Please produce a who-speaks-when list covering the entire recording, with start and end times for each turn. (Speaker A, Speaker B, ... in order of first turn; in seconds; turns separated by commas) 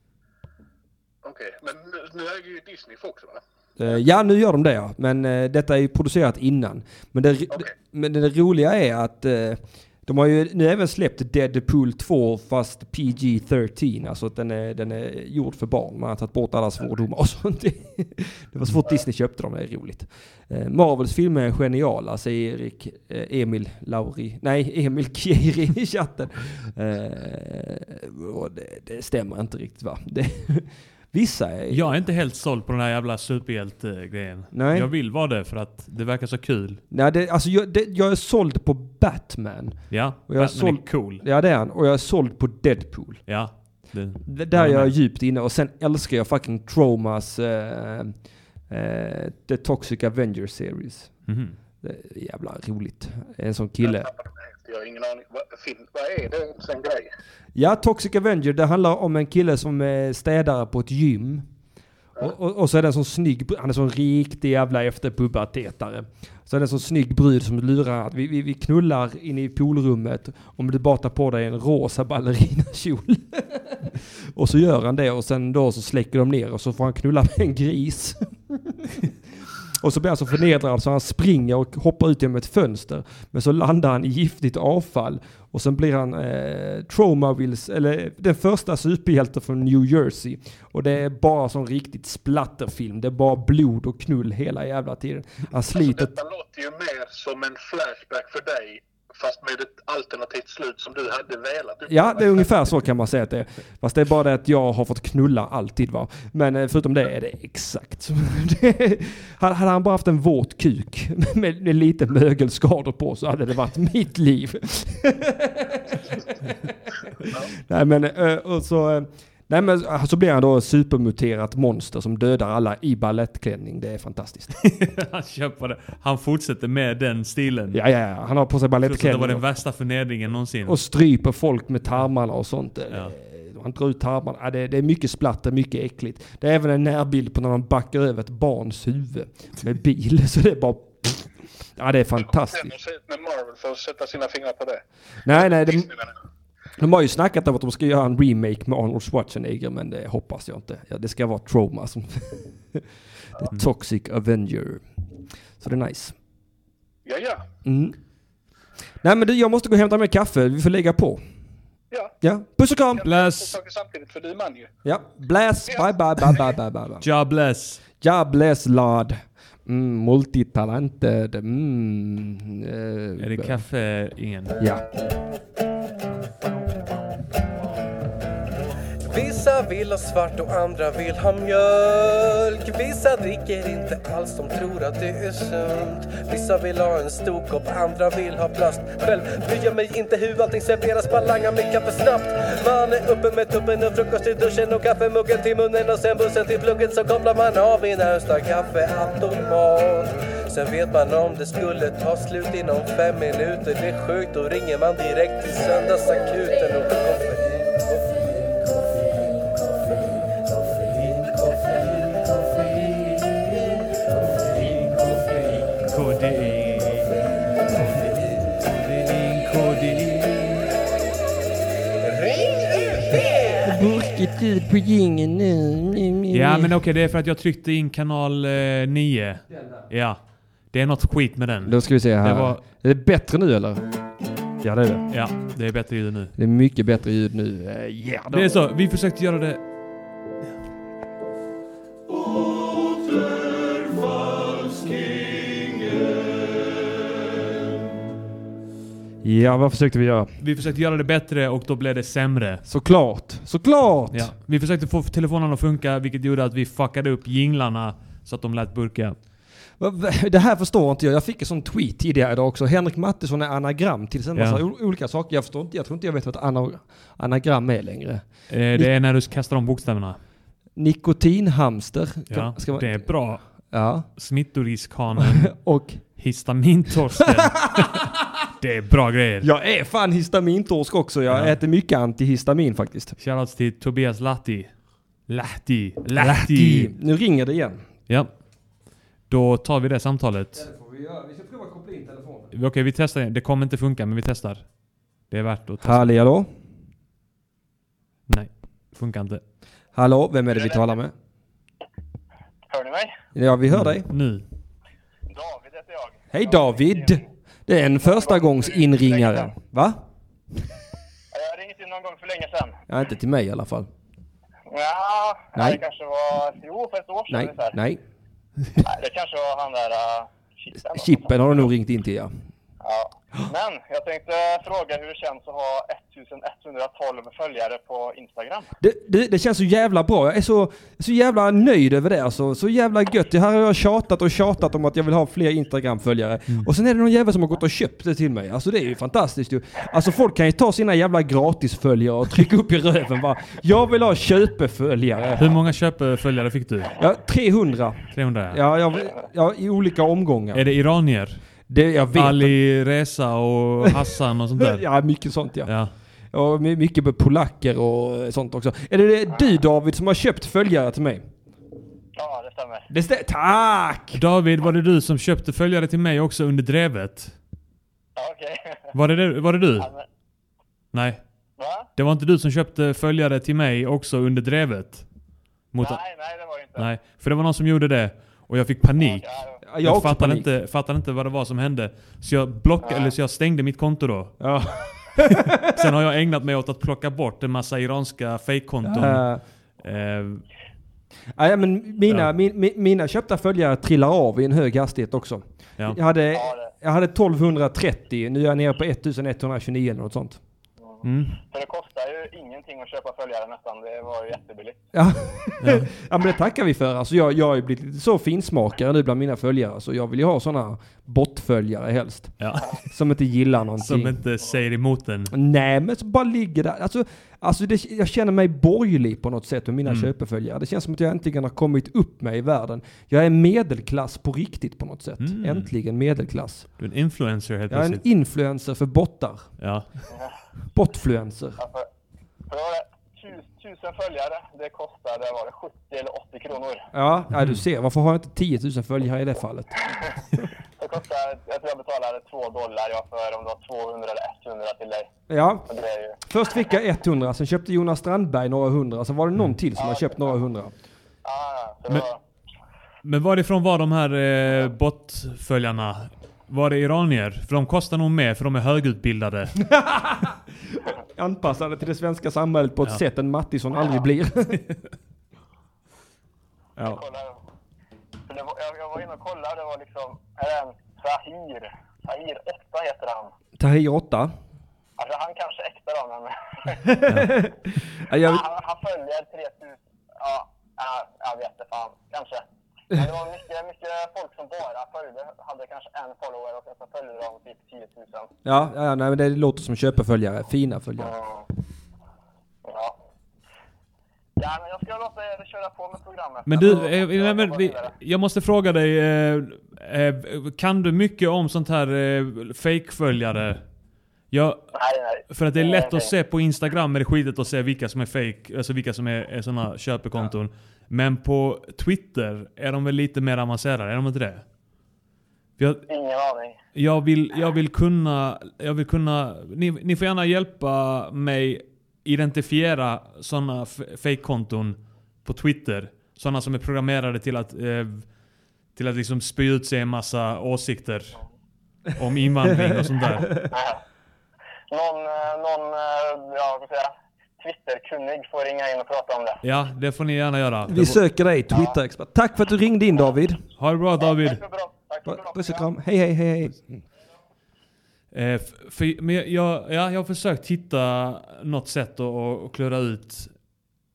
Speaker A: 1.2-3.4, Speaker B: 3.8-32.0, Speaker C: 31.7-36.8, Speaker B: 34.5-34.9, Speaker B: 36.9-43.2, Speaker C: 39.9-41.2, Speaker C: 43.3-45.0, Speaker B: 44.3-48.1, Speaker B: 48.7-51.2, Speaker C: 51.3-51.6, Speaker B: 51.8-54.1, Speaker A: 53.8-57.1, Speaker B: 57.5-61.5, Speaker B: 62.2-79.1, Speaker B: 79.8-96.2, Speaker A: 95.7-102.5, Speaker B: 101.9-124.5, Speaker C: 124.6-127.8, Speaker B: 127.7-129.4, Speaker C: 128.8-130.8, Speaker B: 130.7-142.7, Speaker A: 142.2-146.1, Speaker B: 145.2-145.9, Speaker B: 146.8-152.9, Speaker B: 153.5-154.9, Speaker B: 155.6-156.2, Speaker A: 157.1-157.4, Speaker B: 157.7-158.0, Speaker B: 159.0-161.2, Speaker B: 162.2-163.1, Speaker A: 162.9-164.7, Speaker C: 163.0-163.5, Speaker B: 164.8-167.1, Speaker A: 165.7-166.5, Speaker C: 167.0-167.8, Speaker B: 168.0-173.6, Speaker C: 173.2-174.6, Speaker B: 174.6-174.9, Speaker D: 179.0-208.2, Speaker C: 215.8-217.2, Speaker C: 217.8-220.7, Speaker D: 222.3-222.8, Speaker B: 223.6-226.7, Speaker C: 226.3-232.6, Speaker B: 229.5-229.9, Speaker B: 231.7-233.8, Speaker B: 234.6-235.1, Speaker C: 235.1-236.3, Speaker B: 236.4-238.5, Speaker C: 238.3-239.6, Speaker B: 249.2-250.3, Speaker C: 250.4-252.6, Speaker B: 252.7-254.3, Speaker C: 254.1-259.2, Speaker B: 259.8-268.9, Speaker C: 264.4-264.6, Speaker C: 268.5-270.2, Speaker B: 270.8-274.1, Speaker C: 272.3-273.4, Speaker C: 274.1-275.5, Speaker B: 275.2-276.0, Speaker C: 276.2-279.5, Speaker B: 277.2-278.1, Speaker B: 279.4-283.1, Speaker C: 281.3-281.6, Speaker C: 283.2-284.8, Speaker C: 285.3-286.9, Speaker B: 286.1-287.9, Speaker C: 288.1-288.4, Speaker C: 289.3-290.6, Speaker B: 290.5-292.5, Speaker C: 292.5-294.7, Speaker C: 295.3-296.1, Speaker B: 295.8-296.5, Speaker C: 298.3-299.4, Speaker B: 299.9-301.1, Speaker E: 300.5-300.9, Speaker E: 302.7-303.1, Speaker B: 303.4-304.1, Speaker C: 303.7-304.4, Speaker E: 305.3-307.3, Speaker B: 306.3-310.0, Speaker E: 308.0-309.5, Speaker E: 311.3-312.8, Speaker B: 312.9-313.9, Speaker E: 314.7-317.8, Speaker B: 315.6-315.8, Speaker B: 317.3-318.0, Speaker E: 318.8-321.4, Speaker B: 320.9-322.3, Speaker E: 322.8-328.7, Speaker B: 328.8-345.6, Speaker C: 345.4-346.9, Speaker B: 347.0-350.6, Speaker C: 348.1-348.6, Speaker C: 350.5-351.4, Speaker B: 351.7-352.6, Speaker C: 352.1-354.8, Speaker B: 354.6-355.7, Speaker C: 355.7-355.9, Speaker B: 356.3-361.3, Speaker E: 362.1-362.9, Speaker B: 362.9-364.2, Speaker C: 364.1-367.4, Speaker E: 368.2-368.9, Speaker C: 368.9-369.9, Speaker E: 369.8-370.1, Speaker C: 370.9-371.2, Speaker E: 371.6-371.9, Speaker C: 371.9-375.1, Speaker C: 375.7-376.0, Speaker E: 375.8-376.9, Speaker C: 376.8-379.3, Speaker E: 379.0-379.6, Speaker B: 379.6-380.5, Speaker C: 379.8-384.4, Speaker E: 382.8-383.1, Speaker B: 384.4-385.9, Speaker C: 385.6-389.2, Speaker B: 388.9-389.4, Speaker C: 389.8-390.4, Speaker B: 391.4-400.4, Speaker E: 396.3-396.7, Speaker E: 400.8-404.8, Speaker C: 401.0-401.4, Speaker B: 404.9-414.2, Speaker C: 405.6-405.9, Speaker C: 412.4-412.7, Speaker C: 413.8-415.3, Speaker B: 415.3-426.7, Speaker C: 425.2-425.7, Speaker C: 426.8-428.0, Speaker B: 427.7-429.5, Speaker C: 429.6-429.9, Speaker B: 430.7-431.6, Speaker E: 431.6-431.9, Speaker E: 432.5-436.9, Speaker B: 436.9-439.9, Speaker E: 439.8-440.2, Speaker E: 440.8-445.1, Speaker B: 445.3-445.7, Speaker E: 445.7-446.6, Speaker B: 446.3-450.7, Speaker E: 449.8-450.4, Speaker E: 451.2-452.2, Speaker C: 453.0-459.6, Speaker B: 459.6-464.8, Speaker E: 466.8-467.4, Speaker E: 468.3-473.3, Speaker B: 473.6-474.3, Speaker E: 475.0-477.1, Speaker B: 476.9-478.4, Speaker E: 478.1-488.3, Speaker B: 488.4-491.1, Speaker E: 491.0-491.5, Speaker E: 492.6-493.0, Speaker E: 494.4-497.9, Speaker C: 496.5-503.6, Speaker C: 504.3-504.7, Speaker E: 504.7-506.1, Speaker C: 505.3-514.5, Speaker C: 515.6-515.9, Speaker E: 515.9-516.6, Speaker C: 516.7-528.1, Speaker C: 528.8-531.1, Speaker C: 532.0-533.3, Speaker B: 532.5-533.5, Speaker E: 533.5-533.8, Speaker E: 534.7-539.4, Speaker C: 539.4-541.0, Speaker B: 540.7-543.4, Speaker E: 541.5-541.8, Speaker C: 543.6-544.4, Speaker E: 544.0-545.7, Speaker B: 545.1-546.8, Speaker C: 548.1-553.3